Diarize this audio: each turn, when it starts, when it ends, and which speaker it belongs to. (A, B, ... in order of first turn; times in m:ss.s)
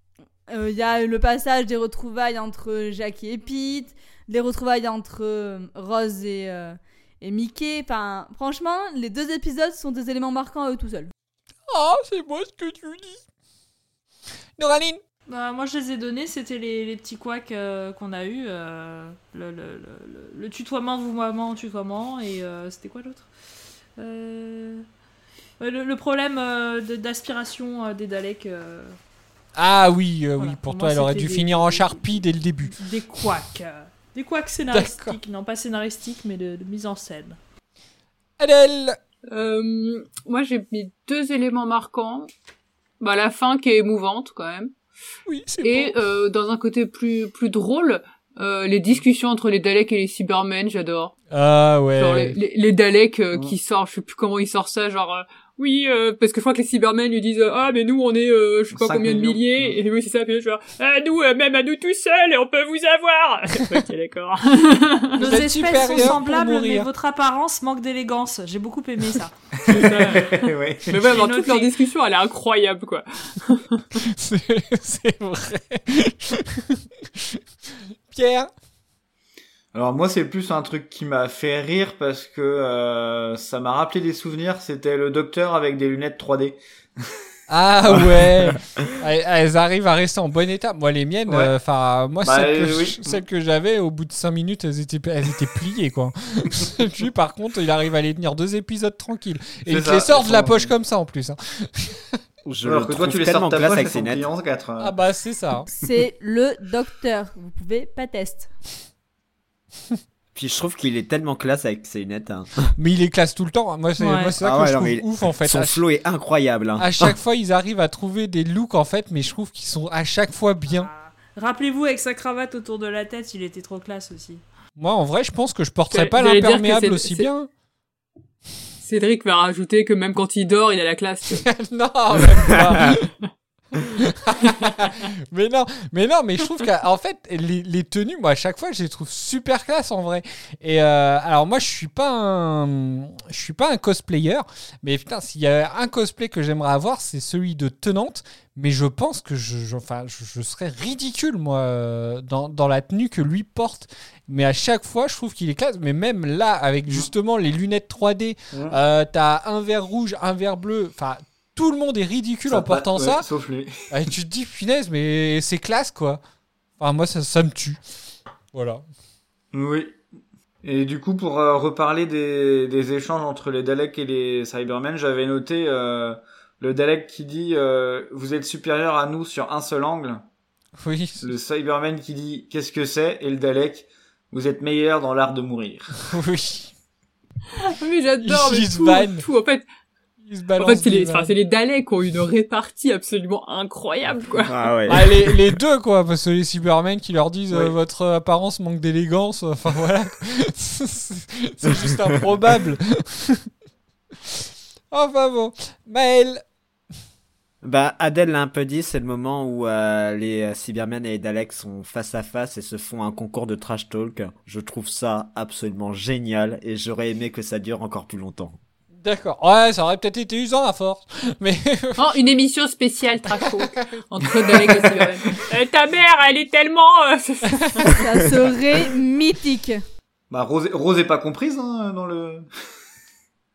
0:00.5-0:11.1 A
0:11.7-0:13.2 B
0:14.6-0:15.0 B
0:15.3-0:23.3 C
0:24.0-0:24.8 C
0:25.6-0:29.0 C
0:29.6-0:32.8 B
0:30.4-0:32.0 C
0:32.7-0:37.4 C
0:34.7-0:35.2 B
0:38.4-0:39.0 B
0:39.3-0:42.3 D
0:43.0-0:44.7 D
0:45.3-0:46.0 B
0:45.6-0:51.1 D
0:51.3-0:52.4 B
0:52.0-1:05.3 D
0:58.7-0:59.5 E
1:05.2-1:06.9 B
1:05.2-1:09.3 C
1:09.6-1:13.8 D
1:09.7-1:11.0 E
1:11.1-1:11.7 C
1:14.0-1:16.6 B
1:18.1-1:18.5 B
1:19.7-1:26.6 E
1:27.5-1:42.0 B
1:31.3-1:31.5 E
1:32.2-1:33.2 E
1:39.6-1:40.7 E
1:42.4-1:44.3 F
1:42.6-1:45.0 E
1:44.8-1:45.7 B
1:45.8-1:48.5 A
1:50.3-1:52.7 F
1:52.8-1:55.8 B
1:54.0-1:54.3 C
1:54.4-1:57.1 F
1:56.8-2:00.9 B
2:00.7-2:04.4 C
2:04.8-2:07.5 B
2:05.9-2:07.3 D
2:08.8-2:11.4 D
2:11.4-2:13.1 B
2:13.8-2:43.3 B
2:38.5-2:38.8 E
2:42.4-2:43.8 E
2:43.9-2:46.2 B
2:46.8-2:47.8 B
2:48.5-2:48.8 B
2:49.5-2:50.0 E
2:50.6-3:00.2 E
3:00.8-3:01.2 B
3:01.2-3:05.9 E
3:06.1-3:06.7 B
3:07.7-3:09.6 D
3:08.2-3:09.2 B
3:10.2-3:11.3 B
3:10.6-3:14.6 D
3:14.5-3:15.4 F
3:14.9-3:23.4 B
3:17.5-3:17.8 E
3:24.9-3:26.4 B
3:27.6-3:38.6 F
3:39.0-3:42.2 B
3:42.0-3:48.0 D
3:43.6-3:45.2 B
3:48.0-3:49.8 A
3:50.3-3:52.5 E